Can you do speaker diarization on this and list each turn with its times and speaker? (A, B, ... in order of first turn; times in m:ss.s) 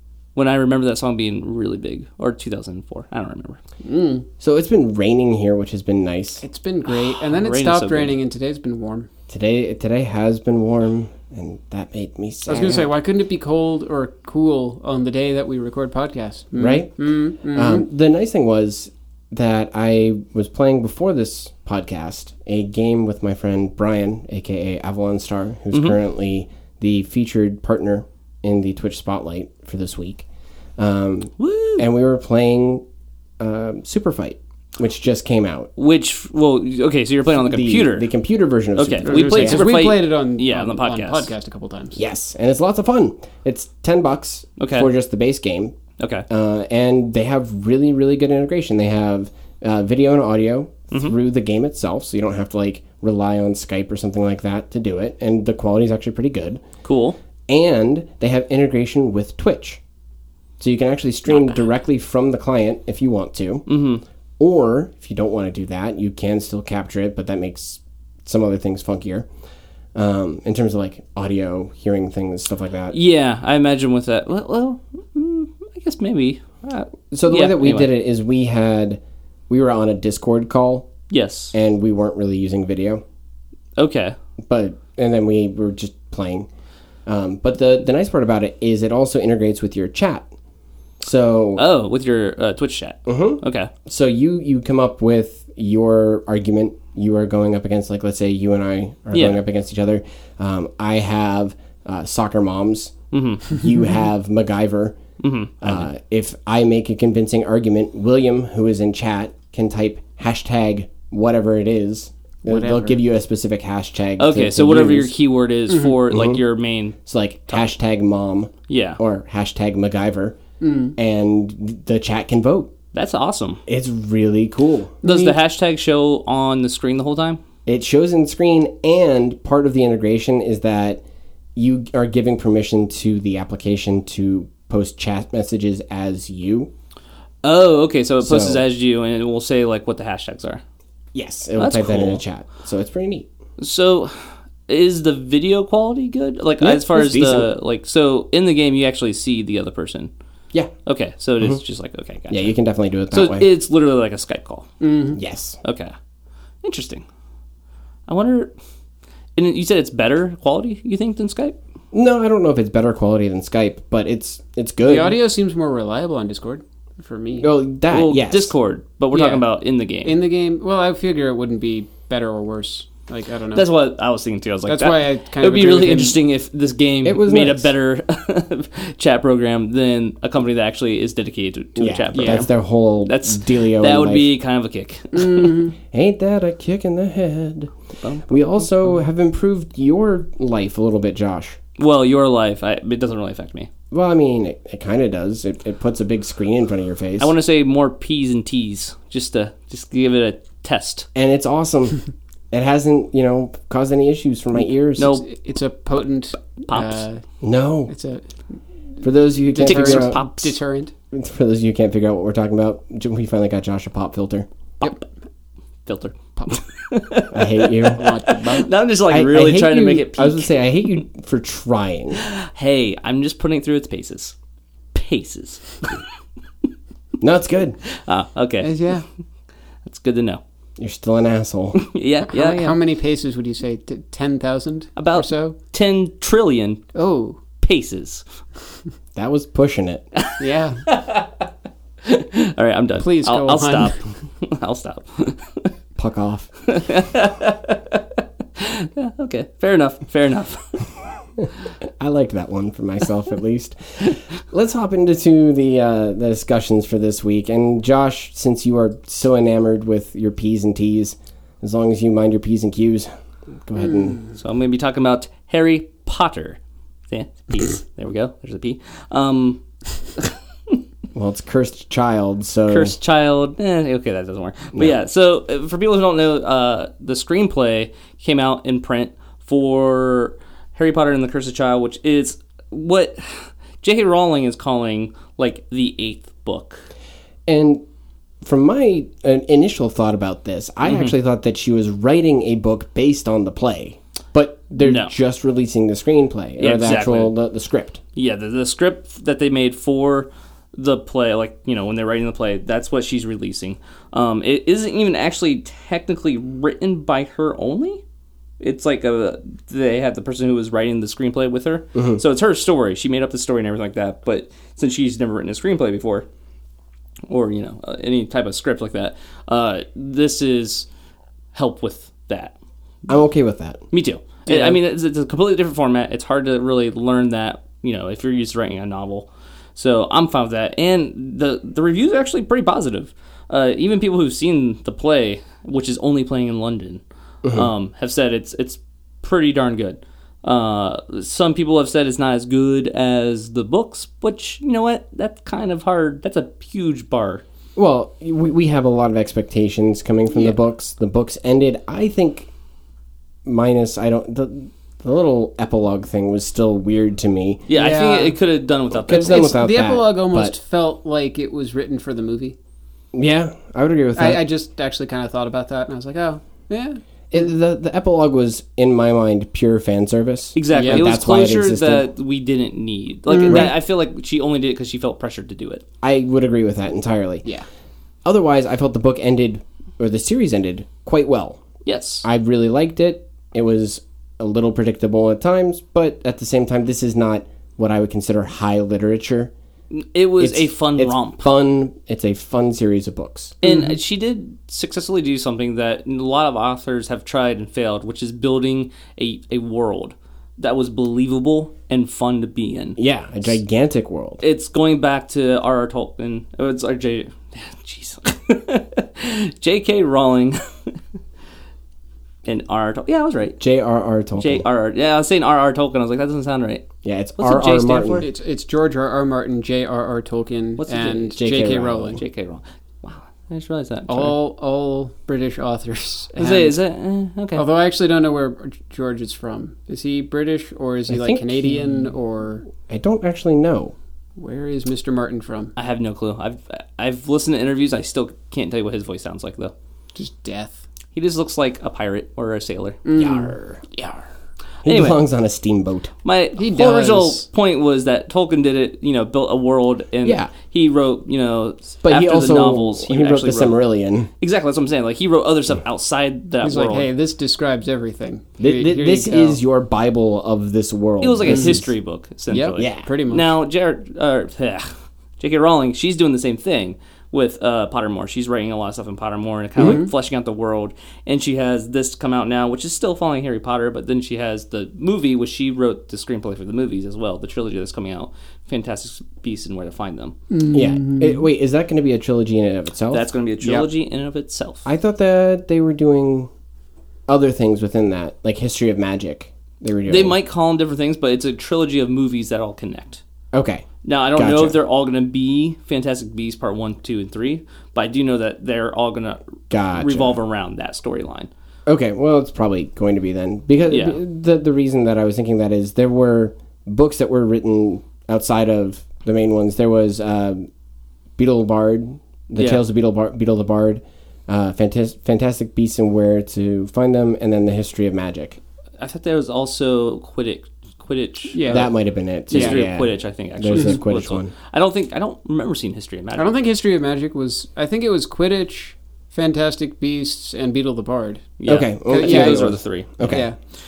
0:00.4-0:03.6 A
0:03.8-0:04.3 B
0:04.4-0:06.4 C
0:06.4-0:09.1 B
0:06.9-0:08.2 A
0:09.3-0:12.9 C
0:12.5-0:17.9 B
0:16.6-0:17.0 C
0:17.5-0:30.3 C
0:25.7-0:26.0 A
0:30.8-0:32.8 C
0:31.4-0:31.8 A
0:33.4-0:35.7 C
0:35.8-0:38.1 A
0:37.4-0:39.7 C
0:38.8-0:41.3 A
0:39.0-0:42.0 B
0:42.0-0:45.8 C
0:44.6-0:44.9 A
0:46.0-0:46.3 A
0:46.3-0:56.6 C
0:56.8-0:57.2 A
0:57.5-0:59.8 C
1:00.6-1:03.7 C
1:03.7-1:04.0 A
1:04.4-1:09.3 C
1:09.9-1:13.0 C
1:12.9-1:17.9 A
1:17.1-1:20.9 C
1:21.1-1:21.5 A
1:21.5-1:23.0 C
1:23.8-1:24.2 A
1:24.5-1:26.5 C
1:27.1-1:30.3 C
1:31.0-1:31.6 C
1:31.6-1:33.7 A
1:33.1-1:42.9 C
1:39.1-1:39.4 A
1:43.1-1:43.5 A
1:43.5-1:45.0 C
1:45.2-1:45.9 A
1:45.6-1:55.1 C
1:52.4-1:53.0 B
1:54.2-1:57.0 A
1:56.1-1:56.4 C
1:57.0-2:00.4 C
1:58.7-1:59.0 A
2:00.6-2:01.0 B
2:01.0-2:02.7 C
2:02.9-2:03.6 A
2:03.7-2:05.0 C
2:05.0-2:07.4 A
2:05.0-2:05.4 B
2:07.7-2:11.0 C
2:11.6-2:16.7 C
2:17.4-2:20.6 A
2:18.2-2:18.6 C
2:21.1-2:23.3 C
2:21.6-2:22.2 A
2:23.6-2:30.1 A
2:26.6-2:27.5 C
2:30.9-2:32.5 A
2:32.3-2:33.5 C
2:33.1-2:34.7 A
2:34.8-2:35.2 B
2:35.2-2:35.6 C
2:35.6-2:35.9 A
2:36.6-2:37.0 A
2:38.1-2:38.5 A
2:39.4-2:41.6 A
2:41.9-2:45.2 C
2:44.8-2:47.5 B
2:47.4-2:48.5 C
2:47.9-2:50.2 A
2:49.1-2:49.4 B
2:50.0-2:53.7 B
2:53.5-3:02.5 A
2:54.7-2:56.2 B
2:57.0-2:57.7 C
3:01.8-3:04.3 C
3:02.2-3:02.5 B
3:03.0-3:05.7 A
3:05.2-3:05.7 B
3:05.9-3:07.7 C
3:08.0-3:08.3 A
3:08.3-3:11.6 C
3:11.8-3:13.7 A
3:13.9-3:17.3 C
3:17.2-3:21.1 A
3:21.2-3:22.0 C
3:22.5-3:25.1 C
3:25.0-3:25.3 A
3:25.0-3:27.2 B
3:26.6-3:27.0 A
3:27.4-3:27.9 C
3:27.9-3:28.3 B
3:29.0-3:30.2 C
3:29.4-3:30.9 B
3:29.6-3:30.6 A
3:31.1-3:34.5 C
3:35.9-3:40.6 A
3:37.3-3:38.2 C
3:37.9-3:38.7 B
3:39.1-3:42.2 C
3:42.2-3:44.4 A
3:44.9-3:46.0 A
3:47.2-3:47.8 C
3:47.8-3:48.8 A
3:48.6-3:49.0 B
3:49.8-3:50.4 A
3:50.8-3:51.8 C
3:51.8-3:52.8 A
3:52.3-3:55.6 B
3:55.0-3:56.8 A
3:56.9-3:57.4 B
3:57.6-3:58.2 A
3:59.2-4:00.0 C
4:00.2-4:01.3 A
4:00.4-4:00.8 B
4:02.0-4:05.7 A
4:03.0-4:04.0 B
4:06.0-4:06.5 C
4:06.6-4:10.9 A
4:11.4-4:23.1 C
4:23.7-4:24.2 C
4:24.4-4:29.6 A
4:31.1-4:33.0 C
4:32.7-4:46.9 A
4:47.5-4:47.8 C
4:48.4-4:58.0 C
4:50.8-4:51.1 A
4:54.8-4:55.2 A
4:56.6-4:57.3 A
4:58.2-5:08.0 A
5:08.6-5:16.3 A
5:11.9-5:12.2 C
5:17.3-5:20.9 A
5:21.5-5:22.6 A
5:23.1-5:23.8 C
5:23.9-5:47.4 A
5:24.5-5:24.8 B
5:37.4-5:37.7 C
5:47.8-5:52.5 C
5:53.4-5:57.6 C
5:57.7-5:59.6 A
5:57.7-5:58.4 B
5:58.9-6:00.6 C
5:59.1-6:02.6 B
6:03.1-6:04.4 C
6:04.2-6:07.0 B
6:07.3-6:12.1 C
6:10.6-6:15.8 A
6:10.7-6:11.2 B
6:13.3-6:13.7 B
6:13.5-6:13.7 C
6:16.0-6:17.5 C
6:18.2-6:21.6 C
6:21.8-6:22.3 A
6:22.2-6:29.5 C
6:29.9-6:31.5 A
6:30.4-6:33.6 C
6:33.6-6:43.0 A
6:33.6-6:34.0 B
6:43.0-6:44.4 C
6:44.4-6:51.0 A
6:52.4-6:53.6 A
6:53.6-6:54.6 C
6:54.4-6:56.9 A
6:57.0-6:58.3 C
6:57.4-6:58.3 A
6:58.2-7:02.2 B
7:00.8-7:01.5 A
7:01.4-7:02.2 C
7:02.1-7:04.4 A
7:04.1-7:06.8 B
7:06.4-7:07.7 A
7:07.6-7:12.6 B
7:11.1-7:12.1 C
7:12.8-7:14.0 C
7:14.4-7:15.7 B
7:15.8-7:19.7 A
7:20.2-7:20.8 B
7:21.1-7:23.0 A
7:23.0-7:24.3 B
7:23.2-7:23.8 C
7:24.8-7:25.2 A
7:24.8-7:26.1 C
7:26.2-7:33.8 A
7:26.6-7:27.5 B
7:30.2-7:30.5 C
7:32.0-7:34.3 C
7:34.4-7:37.1 A
7:36.6-7:39.6 B
7:38.6-7:41.9 C
7:41.2-8:00.4 A
7:41.5-7:41.8 B
7:42.5-7:43.5 B
7:42.8-7:43.1 C
7:49.8-7:50.1 B
8:00.5-8:01.4 B
8:00.7-8:03.9 C
8:03.1-8:04.9 A
8:04.8-8:06.5 C
8:07.3-8:10.4 C
8:10.1-8:13.2 A
8:13.5-8:14.8 C
8:14.0-8:21.5 A
8:19.7-8:20.4 C
8:21.9-8:30.7 C
8:23.9-8:24.2 A
8:31.4-8:38.6 C
8:39.0-8:41.8 A
8:41.5-8:41.9 B
8:41.7-8:44.5 C
8:42.5-8:46.5 A
8:42.5-8:42.8 B
8:46.4-8:51.5 B
8:51.6-8:53.4 A
8:51.7-8:53.5 C
8:52.1-8:53.6 B